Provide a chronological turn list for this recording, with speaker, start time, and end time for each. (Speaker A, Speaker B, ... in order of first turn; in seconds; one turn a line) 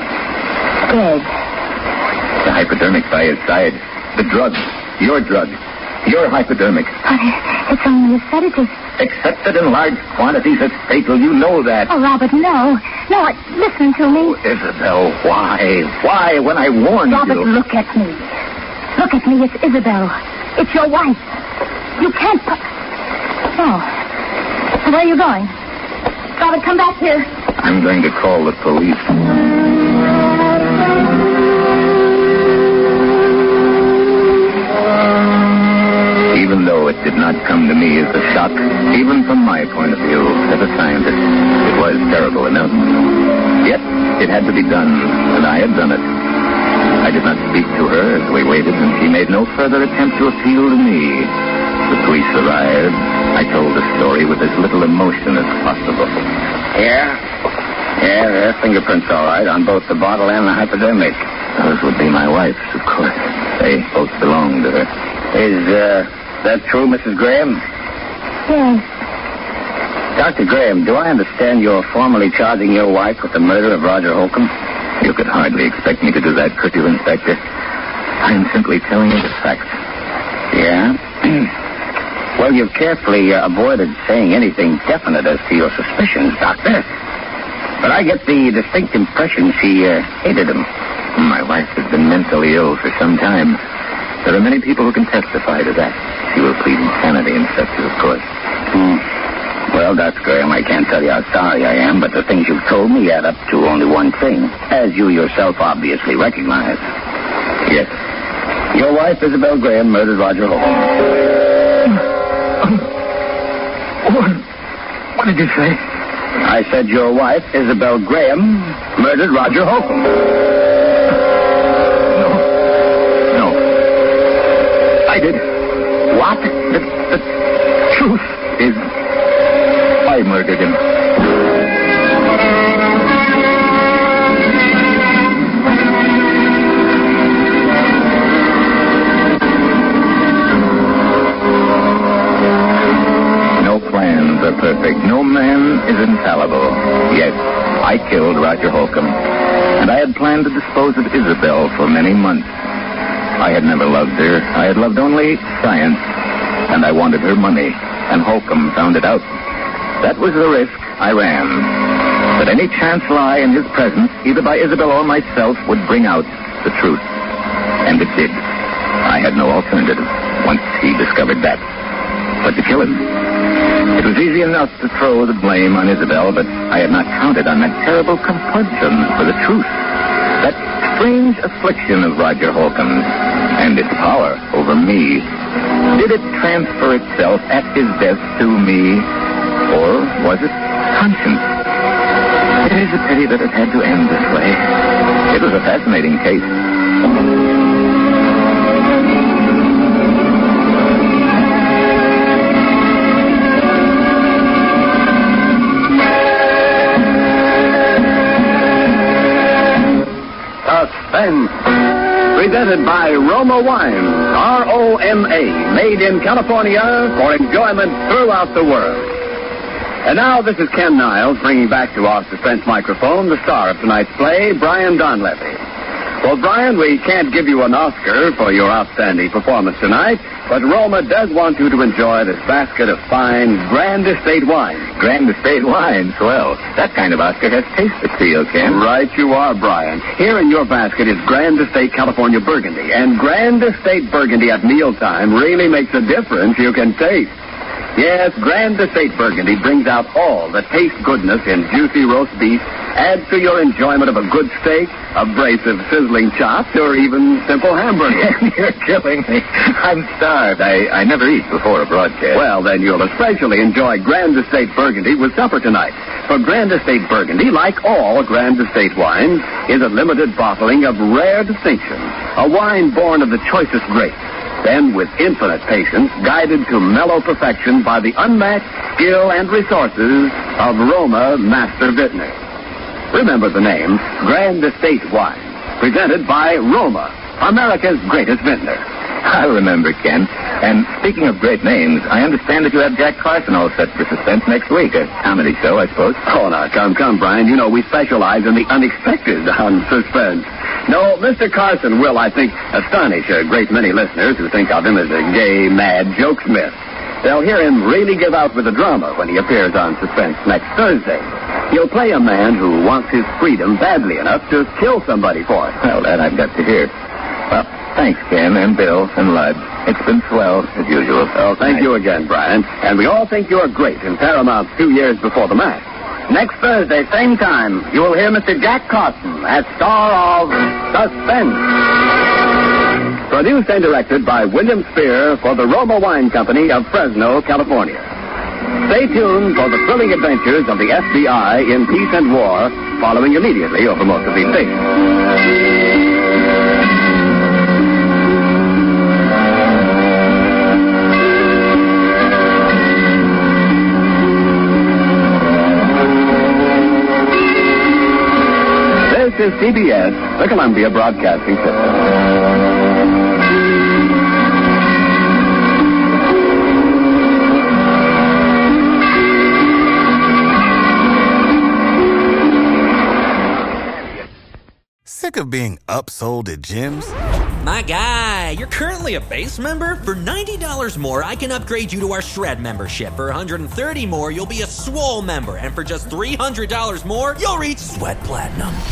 Speaker A: 0.9-1.3
Speaker B: 2.4-7.0
Speaker A: 7.1-8.7
Speaker B: 9.0-11.9
Speaker A: 11.9-14.3
Speaker B: 14.2-17.5
Speaker A: 17.1-18.3
Speaker A: 19.0-21.2
Speaker A: 22.0-22.6
Speaker A: 23.6-23.9
Speaker A: 24.8-25.5
Speaker A: 26.4-27.3
Speaker B: 27.6-29.2
Speaker B: 36.3-46.1
Speaker B: 47.0-51.4
Speaker B: 51.9-56.3
Speaker C: 56.7-57.2
Speaker C: 58.0-61.2
Speaker B: 61.6-64.9
Speaker C: 65.3-67.6
Speaker A: 68.5-68.8
Speaker C: 70.2-74.5
Speaker B: 75.0-77.4
Speaker B: 78.2-79.7
Speaker C: 80.5-81.5
Speaker C: 82.4-86.9
Speaker C: 87.8-90.7
Speaker B: 91.2-93.6
Speaker B: 94.2-98.2
Speaker C: 99.7-106.8
Speaker C: 108.7-111.0
Speaker B: 114.1-114.4
Speaker B: 115.2-115.8
Speaker C: 116.4-120.2
Speaker B: 122.2-122.5
Speaker B: 123.3-123.6
Speaker B: 125.1-125.4
Speaker B: 126.1-127.2
Speaker B: 127.9-128.8
Speaker B: 130.0-130.8
Speaker B: 143.6-149.2
Speaker B: 149.8-152.5
Speaker B: 153.4-156.0
Speaker B: 156.7-159.3
Speaker B: 160.0-167.0
Speaker B: 167.8-168.4
Speaker B: 169.0-171.6
Speaker B: 172.4-173.3
Speaker B: 173.9-179.8
Speaker B: 180.4-185.3
Speaker B: 185.9-189.1
Speaker B: 189.7-191.6
Speaker B: 192.6-194.8
Speaker B: 195.3-196.6
Speaker D: 210.7-211.6
Speaker D: 212.3-219.2
Speaker D: 220.1-225.6
Speaker D: 226.2-234.9
Speaker B: 235.0-238.8
Speaker D: 238.6-247.3
Speaker D: 248.0-258.3
Speaker B: 258.1-262.4
Speaker D: 262.3-282.4
Speaker D: 283.1-288.8
Speaker B: 289.2-296.2
Speaker D: 296.3-315.8
Speaker B: 315.8-316.9
Speaker B: 317.5-321.8
Speaker D: 321.4-325.8
Speaker C: 326.3-331.3
Speaker D: 330.9-331.6
Speaker D: 333.3-338.0
Speaker D: 338.9-344.8
Speaker D: 359.1-362.0
Speaker E: 375.1-377.2
Speaker F: 377.6-388.8